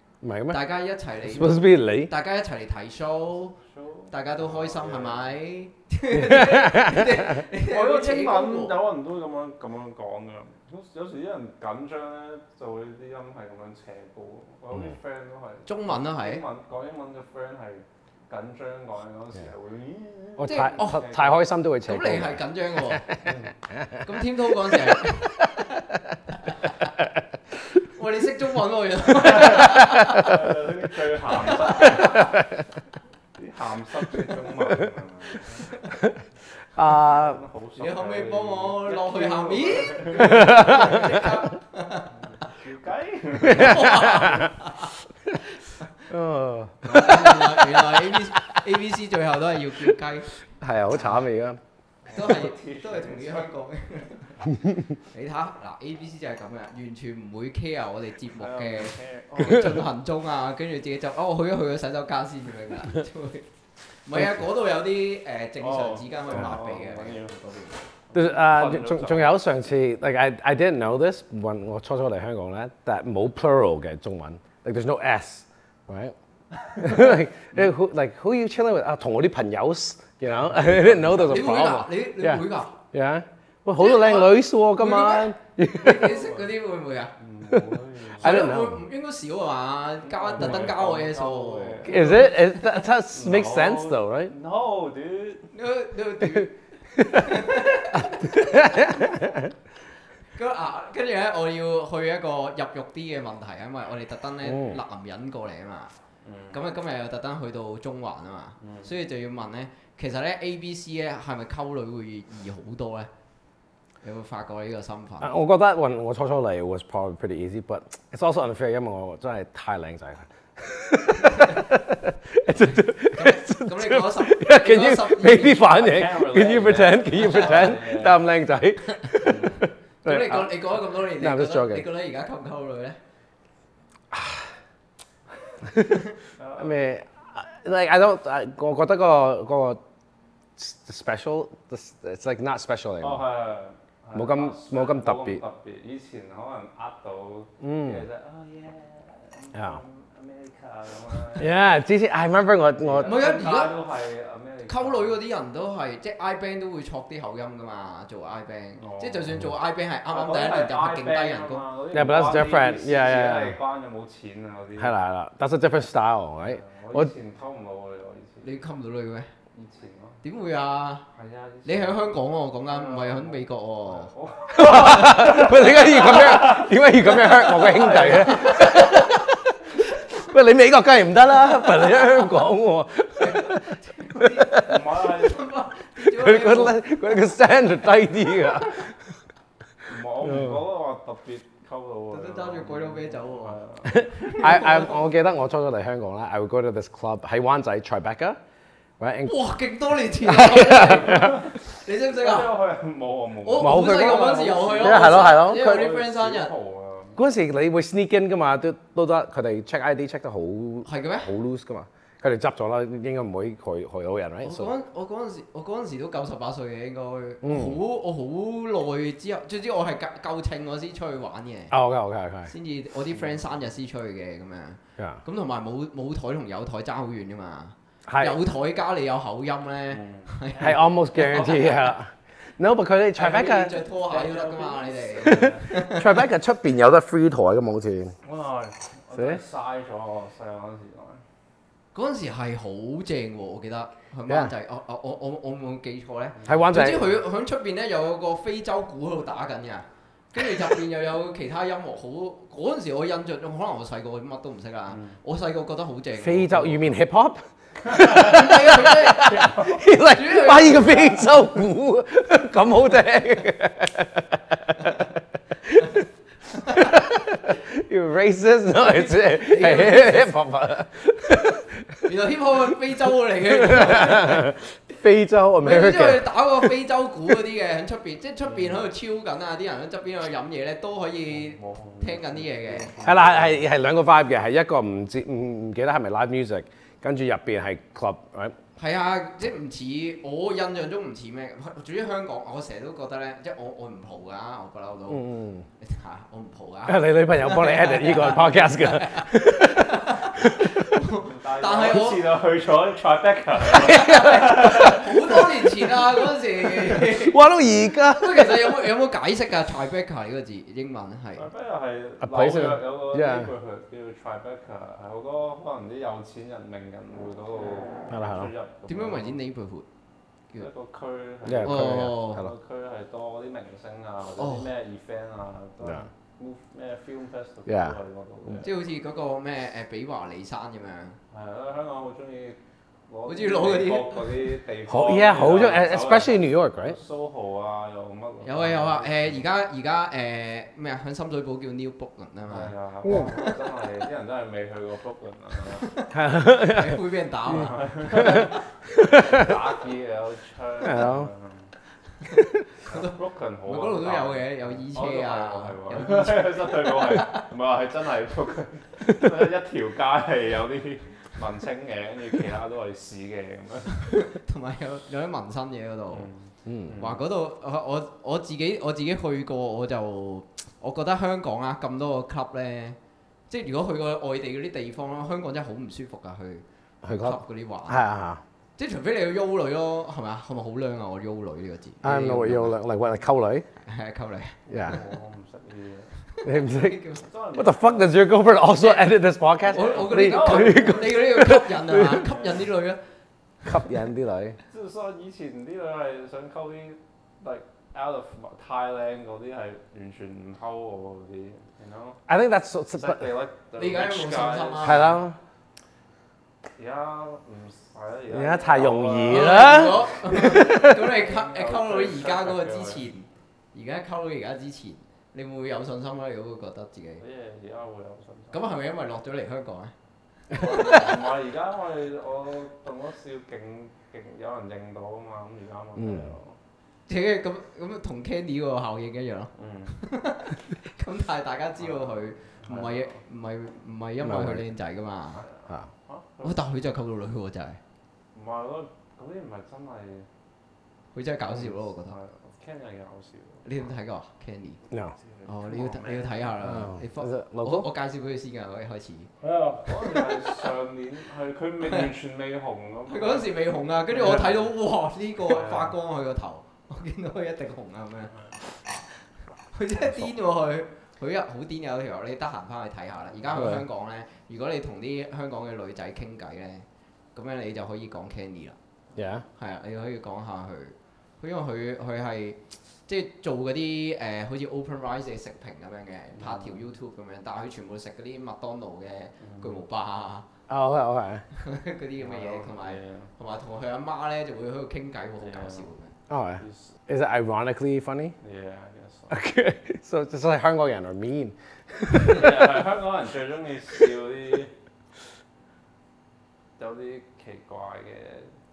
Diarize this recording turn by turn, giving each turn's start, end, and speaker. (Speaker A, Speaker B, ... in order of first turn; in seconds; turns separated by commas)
Speaker A: 0.2-0.6, Speaker B: 0.5-3.5, Speaker A: 1.2-2.1, Speaker C: 3.6-5.3, Speaker B: 4.1-8.8, Speaker A: 6.1-7.3, Speaker C: 7.6-21.4, Speaker B: 15.7-16.4, Speaker A: 20.4-22.4, Speaker B: 20.4-21.1, Speaker B: 21.9-23.2, Speaker A: 23.1-24.0, Speaker C: 23.2-23.5, Speaker B: 24.0-26.6, Speaker B: 27.9-30.5, Speaker C: 29.2-32.4, Speaker B: 31.3-32.4, Speaker C: 33.4-35.8, Speaker A: 36.8-37.4, Speaker C: 36.8-41.2, Speaker B: 37.8-42.1, Speaker A: 40.2-41.3, Speaker C: 42.1-43.9, Speaker A: 43.5-44.5, Speaker B: 43.5-44.9, Speaker A: 46.1-48.6, Speaker B: 46.8-50.3, Speaker A: 50.6-51.6, Speaker B: 50.9-51.2, Speaker C: 52.0-53.5, Speaker B: 52.1-54.4, Speaker B: 55.0-63.5, Speaker C: 58.4-59.8, Speaker B: 64.0-67.9, Speaker A: 64.2-64.4, Speaker C: 65.6-67.3, Speaker C: 68.1-69.4, Speaker A: 68.1-76.1, Speaker C: 76.7-77.1, Speaker A: 76.8-86.2, Speaker C: 80.4-81.4, Speaker B: 81.2-82.8, Speaker B: 83.8-87.1, Speaker C: 86.0-86.5, Speaker C: 87.2-88.5, Speaker A: 88.2-88.8, Speaker B: 88.2-92.6, Speaker C: 90.0-92.3, Speaker A: 91.8-94.3, Speaker C: 93.1-95.5, Speaker B: 95.5-99.2, Speaker A: 97.0-97.4, Speaker A: 97.9-99.5, Speaker B: 100.3-105.9, Speaker A: 104.4-104.8, Speaker C: 106.2-106.6, Speaker B: 106.5-113.1, Speaker C: 108.6-108.9, Speaker B: 114.0-115.3, Speaker A: 115.2-129.5, Speaker B: 123.1-125.8, Speaker C: 125.5-128.2, Speaker B: 128.9-133.0, Speaker C: 129.2-129.6, Speaker A: 130.0-131.9, Speaker A: 134.1-134.5, Speaker A: 135.6-136.1, Speaker C: 136.4-136.7, Speaker A: 136.6-139.8, Speaker A: 140.6-143.3, Speaker C: 143.0-151.6, Speaker A: 144.1-145.4, Speaker A: 147.6-148.0, Speaker A: 149.5-149.8, Speaker A: 151.4-153.2, Speaker C: 152.8-155.2, Speaker B: 153.0-153.8, Speaker B: 154.7-161.6, Speaker C: 158.8-159.3, Speaker C: 160.1-164.9, Speaker A: 161.9-163.6, Speaker A: 164.8-167.1, Speaker C: 166.4-168.5, Speaker B: 168.4-169.3, Speaker C: 169.5-170.2, Speaker B: 170.2-171.1, Speaker C: 171.1-178.9, Speaker B: 171.6-175.3, Speaker A: 174.5-179.5, Speaker B: 178.2-179.2, Speaker A: 180.1-183.6, Speaker B: 181.9-182.2, Speaker B: 183.2-186.8, Speaker A: 184.2-184.7, Speaker C: 184.5-185.4, Speaker A: 186.0-188.9, Speaker C: 189.8-194.5, Speaker A: 190.2-190.7, Speaker B: 192.1-193.6, Speaker A: 193.8-198.4, Speaker B: 194.2-195.1, Speaker A: 199.0-199.3, Speaker B: 199.2-202.5, Speaker A: 200.2-201.4, Speaker C: 200.7-207.2, Speaker B: 203.4-206.5, Speaker A: 203.6-205.9, Speaker A: 207.2-214.7, Speaker B: 210.8-211.3, Speaker B: 214.4-221.7, Speaker A: 217.4-217.8, Speaker A: 221.7-222.5, Speaker B: 222.5-231.8, Speaker C: 223.1-223.4, Speaker A: 228.1-228.4, Speaker C: 229.9-231.8, Speaker A: 230.6-233.8, Speaker B: 233.2-236.2, Speaker C: 234.0-235.8, Speaker A: 235.2-238.1, Speaker C: 238.2-241.2, Speaker A: 239.1-239.4, Speaker B: 241.9-256.9, Speaker C: 246.4-246.6, Speaker A: 246.4-247.1, Speaker C: 254.9-255.2, Speaker A: 256.1-266.0, Speaker B: 258.0-261.3, Speaker C: 259.2-259.8, Speaker B: 266.6-267.0, Speaker A: 266.7-272.0, Speaker B: 268.9-270.3, Speaker B: 272.1-274.5, Speaker A: 273.4-276.3, Speaker B: 275.6-282.9, Speaker C: 278.4-278.9, Speaker C: 281.3-283.7, Speaker A: 283.0-288.6, Speaker B: 288.8-295.3, Speaker A: 295.1-295.6, Speaker B: 295.8-302.2, Speaker A: 296.9-300.6, Speaker C: 301.1-305.4, Speaker B: 303.8-307.4, Speaker A: 303.9-304.9, Speaker A: 306.9-308.7, Speaker B: 308.1-311.4, Speaker C: 311.4-319.4, Speaker A: 312.2-313.5, Speaker A: 318.1-318.5, Speaker B: 318.9-319.9, Speaker C: 320.6-328.7, Speaker A: 321.4-322.5, Speaker B: 321.6-322.4, Speaker B: 324.4-324.7, Speaker A: 327.7-327.9, Speaker B: 328.6-331.2, Speaker C: 331.3-339.4, Speaker B: 333.3-334.4, Speaker A: 334.9-337.0, Speaker B: 338.4-343.5, Speaker C: 342.5-345.9, Speaker B: 345.9-348.6, Speaker A: 346.1-347.0, Speaker C: 347.5-351.7, Speaker A: 348.1-349.5, Speaker A: 350.8-351.3, Speaker C: 352.9-364.0, Speaker B: 352.9-357.5, Speaker B: 364.1-366.3, Speaker C: 366.1-367.2, Speaker A: 366.6-366.9, Speaker B: 367.0-373.0, Speaker B: 373.5-376.6, Speaker A: 377.0-378.4, Speaker B: 377.2-378.0, Speaker B: 378.8-382.8, Speaker A: 382.0-383.6, Speaker B: 383.8-384.6, Speaker A: 384.7-385.0, Speaker C: 384.8-386.1, Speaker B: 386.3-387.2, Speaker A: 386.4-387.0, Speaker C: 387.2-388.3, Speaker A: 387.5-392.2, Speaker B: 388.8-389.1, Speaker C: 389.6-391.0, Speaker B: 389.7-393.0, Speaker C: 392.3-392.6, Speaker A: 393.6-394.6, Speaker C: 394.7-402.2, Speaker A: 402.3-403.2, Speaker C: 402.9-405.1, Speaker B: 403.8-405.2, Speaker A: 404.8-405.4, Speaker C: 406.8-413.0, Speaker A: 408.3-411.0, Speaker B: 409.3-417.2, Speaker C: 417.2-418.6, Speaker B: 418.5-419.9, Speaker B: 420.5-421.2, Speaker C: 420.6-426.6, Speaker A: 426.0-426.3, Speaker B: 427.1-435.4, Speaker C: 429.6-430.0, Speaker C: 431.8-433.2, Speaker A: 434.2-434.6, Speaker C: 435.4-436.6, Speaker B: 436.4-437.8, Speaker C: 438.3-440.3, Speaker B: 441.1-442.1, Speaker C: 441.5-443.6, Speaker B: 443.6-444.8, Speaker C: 445.2-446.6, Speaker B: 445.4-449.3, Speaker A: 446.6-447.9, Speaker C: 449.4-453.5, Speaker B: 449.9-450.5, Speaker B: 453.1-459.0, Speaker C: 454.1-454.7, Speaker C: 455.4-455.9, Speaker B: 459.7-468.8, Speaker A: 463.5-463.8, Speaker A: 469.1-469.4, Speaker B: 469.6-480.4, Speaker C: 476.3-476.8, Speaker C: 479.4-479.8, Speaker A: 480.7-481.4, Speaker B: 481.5-486.1, Speaker C: 482.2-483.3, Speaker C: 485.4-485.9, Speaker A: 486.3-488.3, Speaker C: 486.6-486.9, Speaker C: 488.4-489.4, Speaker A: 489.3-492.8, Speaker C: 492.2-494.7, Speaker C: 496.8-498.5